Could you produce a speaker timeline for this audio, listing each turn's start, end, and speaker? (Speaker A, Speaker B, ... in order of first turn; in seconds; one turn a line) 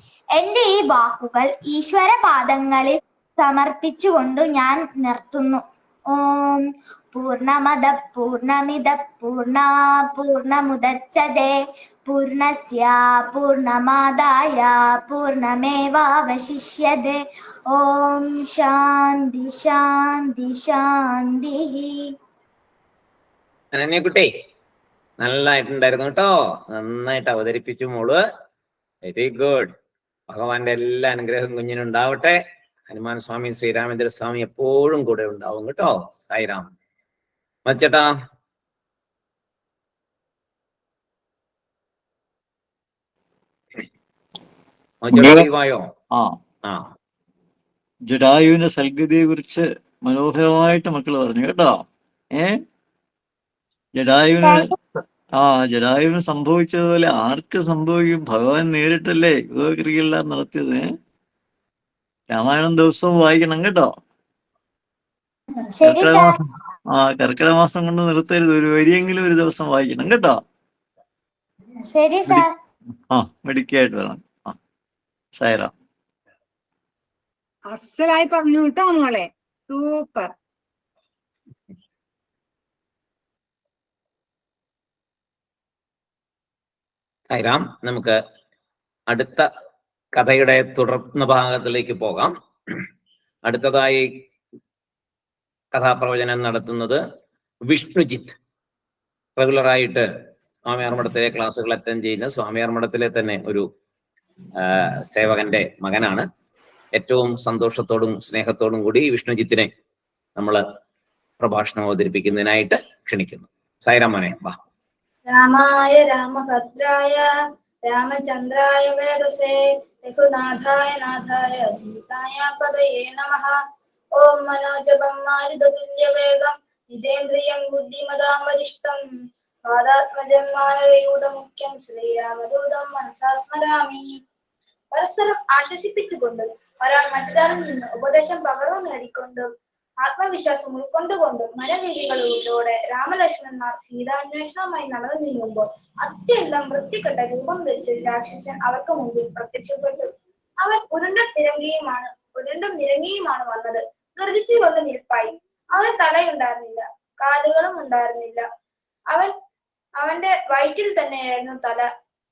Speaker A: 0.4-22.0
Speaker B: 23.7-24.3
Speaker B: 25.2-28.2
Speaker B: 29.1-29.7
Speaker B: 30.3-32.4
Speaker B: 32.9-36.7
Speaker B: 37.7-38.1
Speaker B: 45.0-45.9
Speaker C: 48.1-51.8
Speaker C: 54.0-54.8
Speaker A: 54.4-54.7
Speaker C: 55.4-60.9
Speaker C: 62.3-63.9
Speaker A: 65.7-66.3
Speaker C: 65.8-66.4
Speaker C: 66.9-70.4
Speaker A: 71.8-72.5
Speaker C: 73.1-74.6
Speaker C: 75.4-75.7
Speaker D: 77.7-80.3
Speaker B: 87.3-88.2
Speaker B: 89.1-89.5
Speaker B: 90.1-92.3
Speaker B: 93.5-94.0
Speaker B: 95.7-97.0
Speaker B: 97.7-98.4
Speaker B: 99.4-100.0
Speaker B: 100.7-103.7
Speaker B: 104.6-106.2
Speaker B: 107.0-109.7
Speaker B: 110.4-110.6
Speaker B: 111.4-114.6
Speaker E: 115.3-117.2
Speaker E: 117.9-123.6
Speaker E: 124.2-129.0
Speaker E: 129.7-134.2
Speaker E: 134.9-139.5
Speaker E: 140.0-158.4
Speaker E: 160.0-161.9